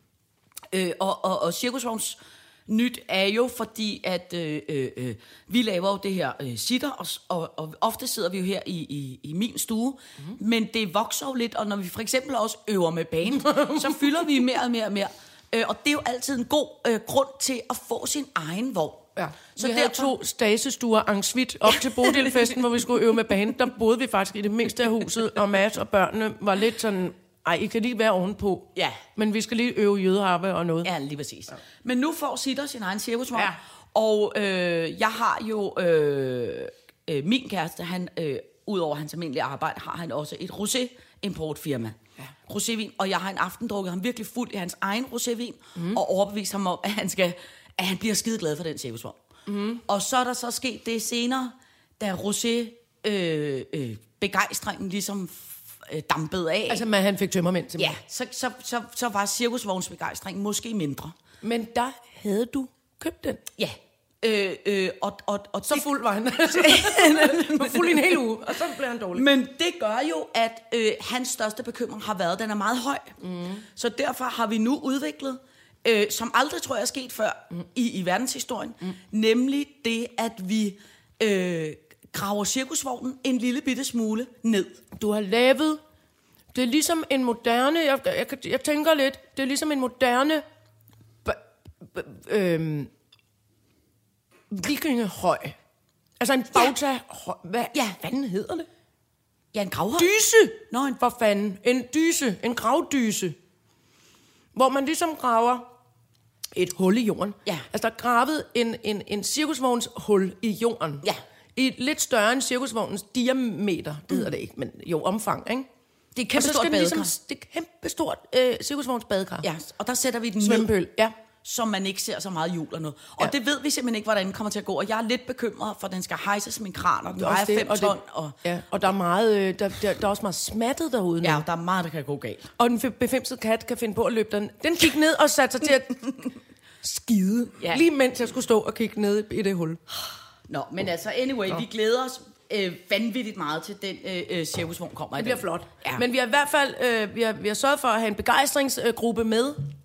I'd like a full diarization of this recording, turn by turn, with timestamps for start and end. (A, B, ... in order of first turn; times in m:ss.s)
0:00.7-0:20.2 A
0:13.5-0:14.2 B
0:19.2-0:30.9 B
0:21.6-0:23.5 A
0:28.7-0:29.0 A
0:30.8-0:49.2 A
0:49.5-0:49.8 B
0:49.8-0:56.8 A
0:56.7-0:58.0 B
0:57.8-1:01.1 A
1:01.4-1:03.4 B
1:03.6-1:24.8 A
1:05.6-1:09.3 B
1:13.2-1:13.6 B
1:25.0-1:25.8 B
1:26.5-1:30.4 B
1:31.2-1:32.9 B
1:34.5-1:35.5 B
1:36.2-1:38.7 B
1:39.5-1:40.1 A
1:40.0-1:43.4 B
1:40.7-1:41.0 A
1:44.5-1:45.7 B
1:46.5-1:51.0 B
1:51.6-1:55.7 B
1:56.1-1:57.1 A
1:56.3-1:59.5 B
1:59.4-2:00.7 A
2:00.4-2:01.1 B
2:01.4-2:08.4 A
2:07.2-2:11.4 B
2:11.2-2:12.5 A
2:12.6-2:16.1 B
2:16.8-2:19.8 B
2:17.6-2:17.8 A
2:20.1-2:26.1 A
2:25.2-2:29.6 B